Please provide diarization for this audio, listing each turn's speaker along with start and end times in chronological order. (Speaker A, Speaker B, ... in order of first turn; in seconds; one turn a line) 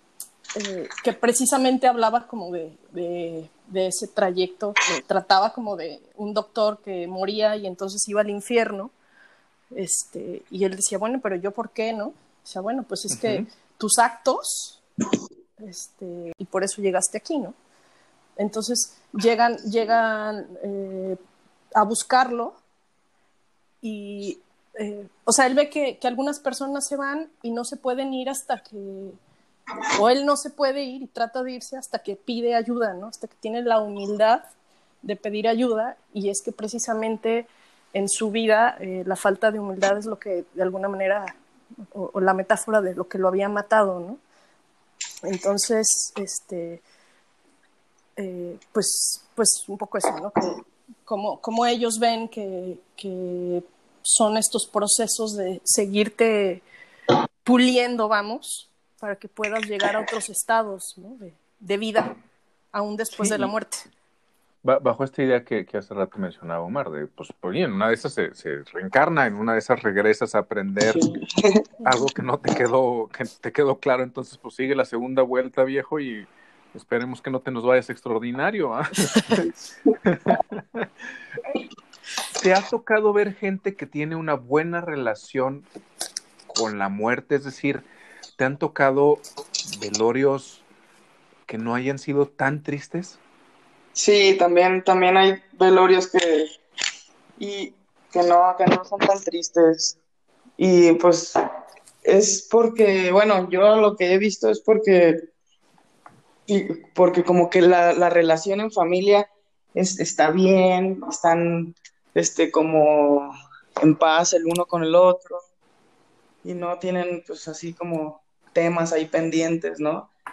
Speaker A: 0.6-8.9
Speaker A: 9.7-14.8
Speaker B: 13.1-13.5
Speaker A: 15.6-17.6
Speaker A: 18.4-21.2
Speaker A: 21.8-22.6
Speaker A: 23.8-29.2
Speaker A: 29.9-34.5
Speaker A: 35.0-41.4
Speaker A: 41.9-44.2
Speaker A: 45.2-46.8
Speaker A: 48.2-56.6
Speaker A: 57.5-62.1
Speaker A: 62.7-63.9
Speaker B: 63.2-63.5
Speaker B: 64.6-71.1
Speaker C: 70.9-71.6
Speaker B: 71.8-79.5
Speaker B: 80.1-80.9
Speaker B: 82.4-85.7
Speaker B: 86.5-90.7
Speaker B: 91.5-93.2
Speaker C: 94.0-96.5
Speaker C: 97.4-100.0
Speaker C: 100.6-101.4
Speaker C: 102.0-105.2
Speaker C: 106.5-115.4
Speaker C: 116.4-120.1